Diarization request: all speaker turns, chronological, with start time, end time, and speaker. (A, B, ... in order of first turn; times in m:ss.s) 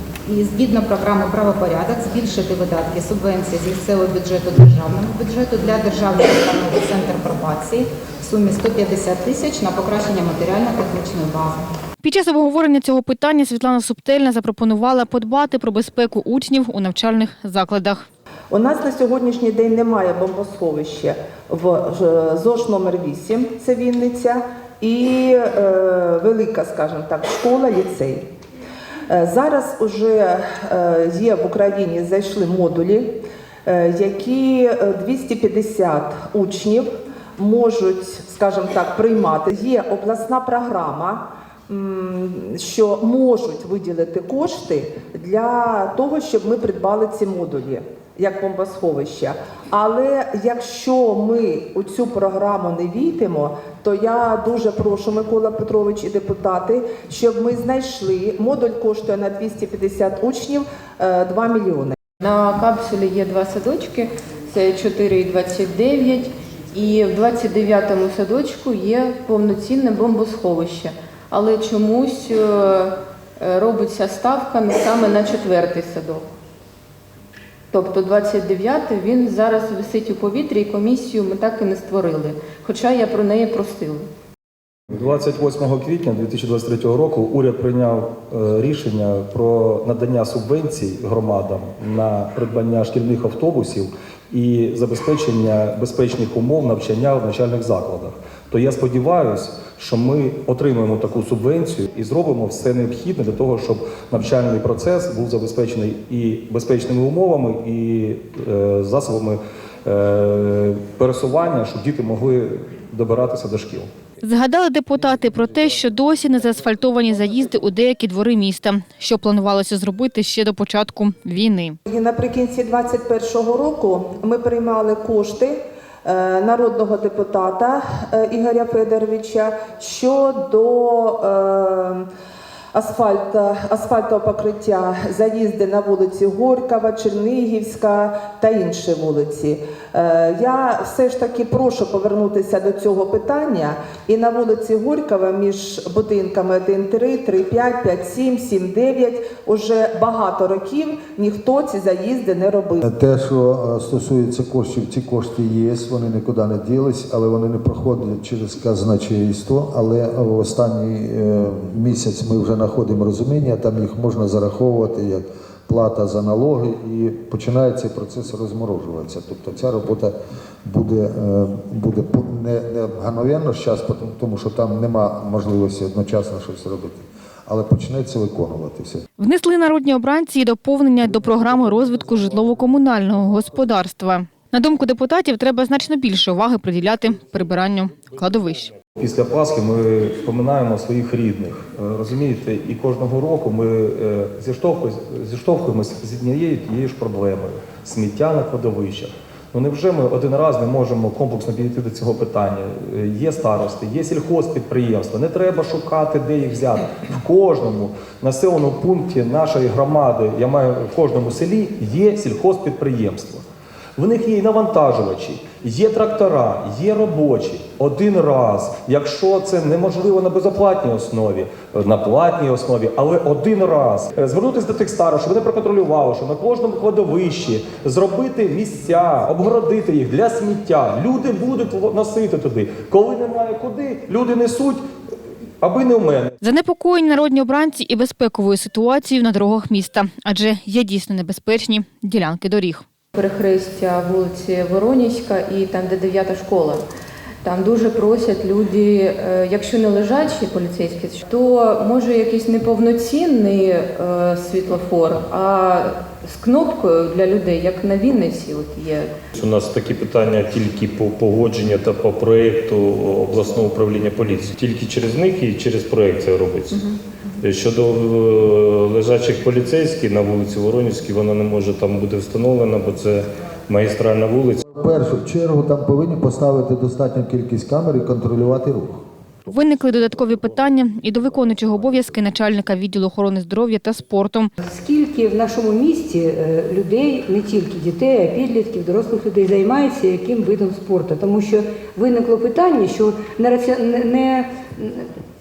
0:00.2-0:11.7 A
0:12.0-0:18.0 B
0:18.5-0:28.2 C
0:29.1-1:02.0 C
1:02.2-1:16.3 D
1:17.7-1:24.1 D
1:24.9-1:53.9 E
1:54.2-2:01.8 B
2:01.9-2:12.1 C
2:12.7-2:32.8 C
2:32.8-2:59.0 F
2:59.2-3:08.7 B
3:09.0-3:33.4 E
3:34.0-3:54.8 E
3:55.6-3:56.3 E
3:56.4-4:02.8 B
4:03.1-4:06.8 D
4:07.4-4:19.1 D
4:19.4-4:26.7 G
4:27.4-4:34.6 G
4:34.7-4:39.0 F
4:39.5-4:44.5 B
4:44.6-4:55.0 H